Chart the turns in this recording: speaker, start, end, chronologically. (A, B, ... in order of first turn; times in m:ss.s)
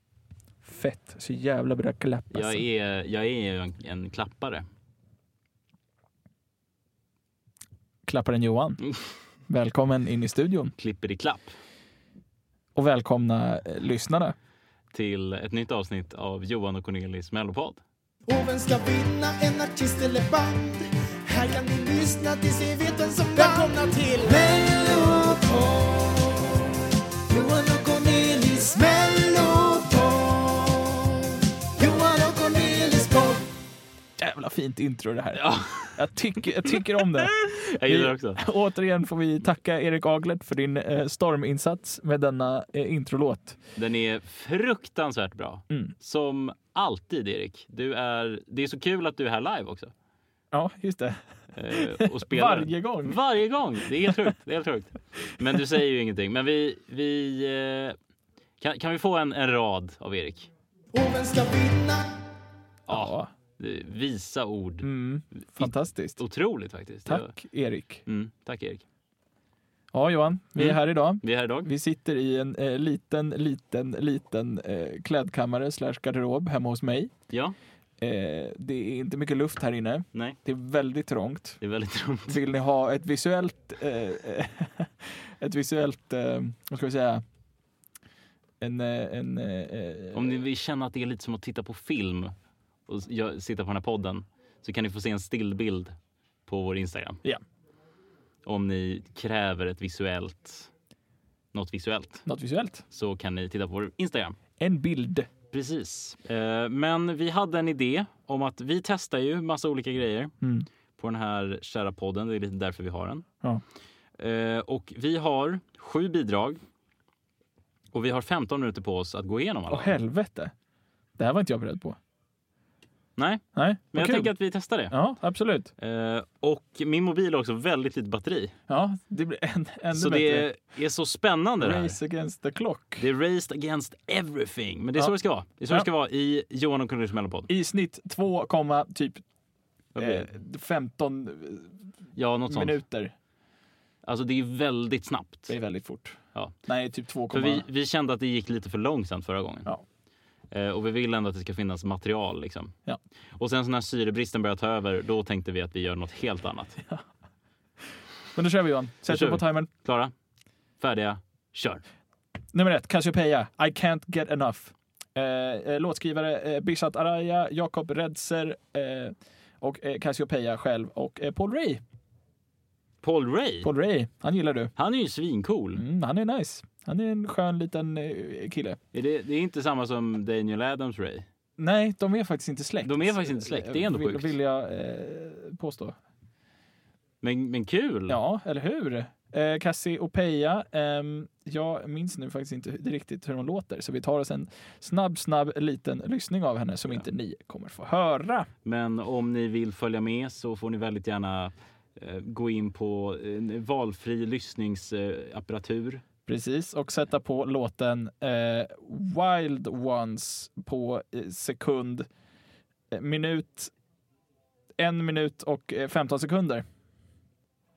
0:00.6-0:02.7 A
0:02.3-0:04.6 B
0:08.1-0:08.8 A
0:09.5-0:10.7 A
0:10.8-0:11.6 B
0:12.8-0:14.4 A
0:14.9-0:17.8 B
0:18.3-0:26.7 C
0:27.3-0:33.5 C
0:34.2-0:43.6 A
0:35.4-0:36.0 B
0:36.7-0:38.4 B
0:43.8-0:49.9 B
0:50.5-0:53.2 A
0:51.5-0:58.0 B
0:58.6-1:00.5 B
1:00.9-1:02.1 C
1:02.9-1:04.9 B
1:02.9-1:03.3 A
1:04.8-1:06.2 A
1:05.6-1:07.3 B
1:07.1-1:08.0 A
1:08.1-1:08.8 B
1:09.9-1:17.1 A
1:10.6-1:11.7 B
1:17.3-1:17.6 B
1:18.0-1:21.6 A
1:21.6-1:22.4 B
1:22.3-1:27.2 A
1:28.6-1:30.4 A
1:30.1-1:32.3 B
1:32.9-1:36.0 B
1:36.5-1:37.2 B
1:38.4-1:40.7 B
1:41.5-1:42.3 B
1:42.3-1:42.8 A
1:42.9-1:44.4 B
1:44.6-1:45.3 A
1:45.5-1:50.3 B
1:50.4-1:50.7 A
1:51.0-1:53.2 B
1:54.2-1:56.6 B
1:57.9-2:00.0 B
1:59.7-2:00.5 A
2:01.2-2:02.0 A
2:03.2-2:04.9 B
2:03.6-2:04.3 A
2:04.9-2:05.7 A
2:05.8-2:08.6 B
2:08.7-2:10.5 A
2:09.9-2:12.0 B
2:11.6-2:13.1 A
2:13.0-2:17.5 B
2:17.5-2:19.2 A
2:20.0-2:20.3 B
2:20.0-2:21.8 A
2:22.2-2:22.8 B
2:22.5-2:23.1 A
2:24.0-2:25.5 B
2:25.5-2:27.6 A
2:27.3-2:29.7 B
2:30.5-2:32.7 B
2:33.4-2:36.8 B
2:38.4-2:39.7 A
2:39.1-2:40.1 B
2:40.8-2:41.8 B
2:42.5-2:51.8 A
2:53.0-2:53.7 B
2:53.6-2:54.7 A
2:54.8-2:55.8 B
2:55.8-2:58.8 A
2:58.9-3:01.3 B
3:01.6-3:06.0 A
3:02.8-3:04.4 B
3:07.2-3:08.2 B
3:08.1-3:18.5 A
3:18.6-3:26.0 B
3:26.3-3:32.1 A
3:32.9-3:33.7 A
3:34.8-3:36.6 A